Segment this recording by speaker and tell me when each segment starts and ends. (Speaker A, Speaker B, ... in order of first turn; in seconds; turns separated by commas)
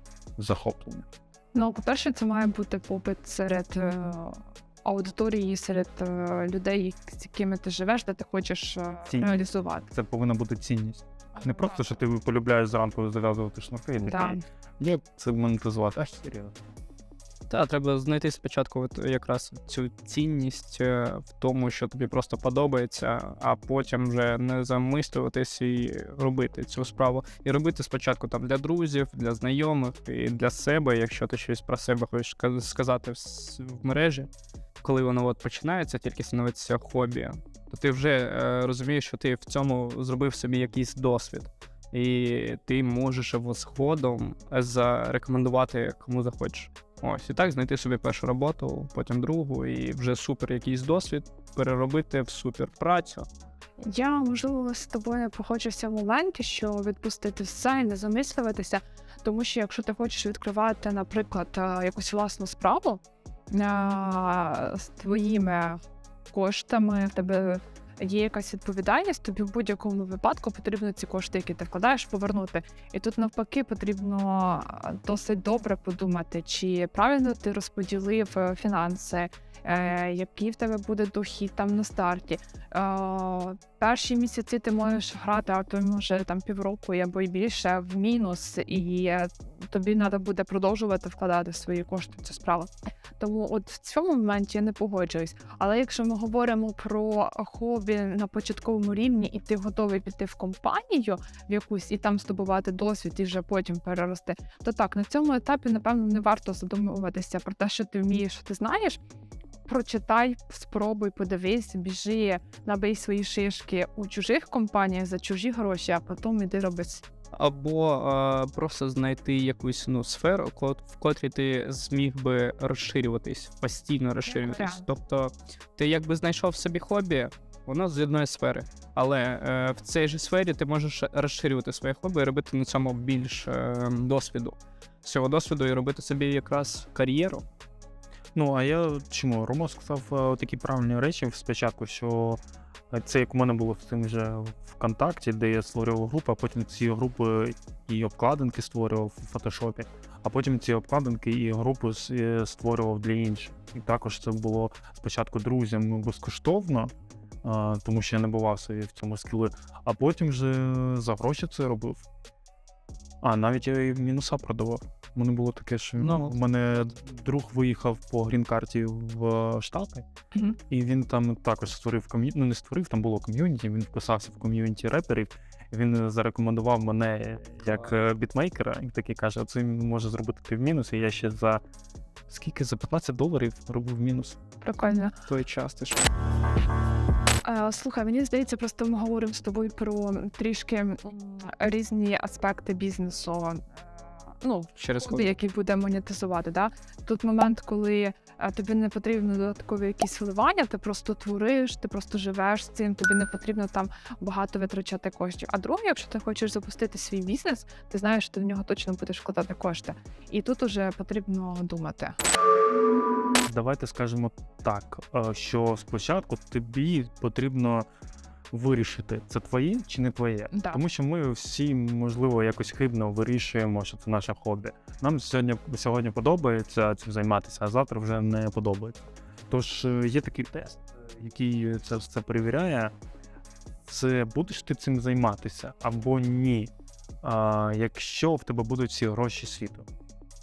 Speaker A: 0.4-1.1, Speaker B: 1.5-9.9, Speaker A: 9.1-9.3, Speaker A: 9.9-16.6, Speaker B: 11.3-12.0, Speaker B: 14.1-14.4, Speaker C: 17.5-34.3, Speaker C: 34.8-53.3, Speaker B: 53.8-109.0, Speaker B: 109.7-117.0, Speaker C: 117.3-137.4, Speaker B: 124.2-124.8, Speaker A: 138.3-162.1, Speaker A: 163.2-170.1, Speaker C: 166.0-166.4, Speaker A: 170.7-181.6, Speaker A: 182.3-184.4, Speaker B: 184.6-185.1, Speaker C: 185.3-186.1, Speaker B: 187.4-193.8, Speaker B: 194.4-212.2, Speaker C: 194.8-195.3, Speaker A: 213.4-217.8, Speaker A: 218.5-232.9, Speaker B: 220.5-220.8, Speaker A: 233.8-236.7, Speaker A: 237.2-239.9